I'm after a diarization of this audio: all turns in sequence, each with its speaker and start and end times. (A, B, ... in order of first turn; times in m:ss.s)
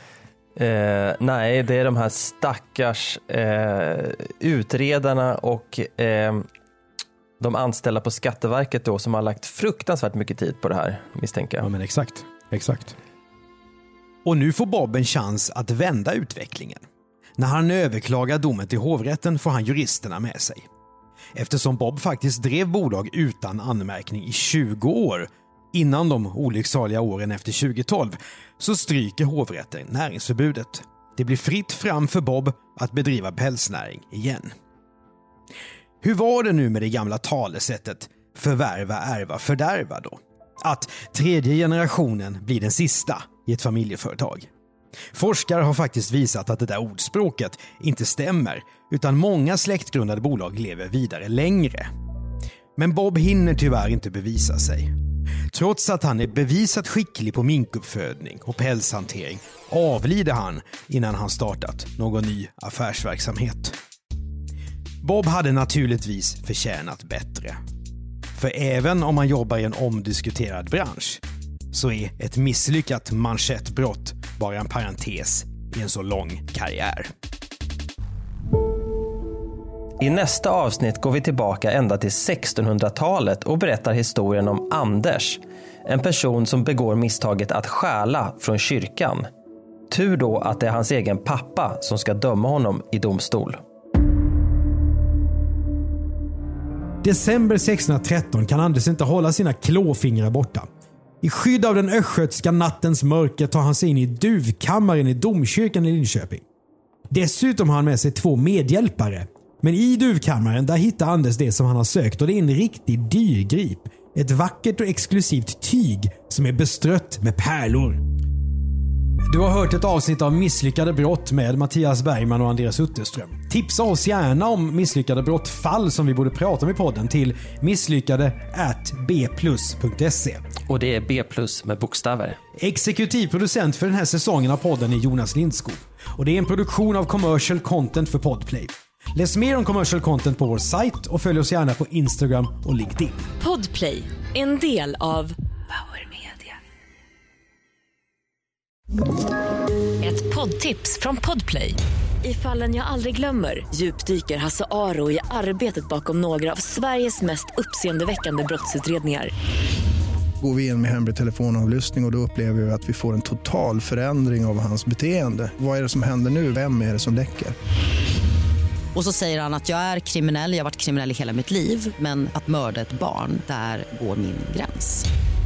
0:00.6-0:06.4 A
0:07.4-0:11.7 A
0:11.6-0:13.0 B
0:14.2-0:16.8 B
0:17.4-0:20.6 B
0:21.3-0:34.5 B
0:36.0-0:44.5 B
0:45.1-0:51.9 B
0:52.8-0:55.0 B
0:55.5-1:03.8 B
1:05.0-1:07.6 B
1:08.3-1:17.1 B
1:20.0-1:29.2 A
1:29.9-1:33.6 A
1:37.0-1:40.7 B
1:41.2-1:46.4 B
1:47.1-1:58.0 B
1:59.3-2:10.4 B
2:10.7-2:12.4 A
2:12.6-2:23.3 B
2:23.4-2:25.3 C
2:25.9-2:26.3 C
2:30.0-2:39.3 C
2:40.4-2:47.5 D
2:48.9-2:55.0 E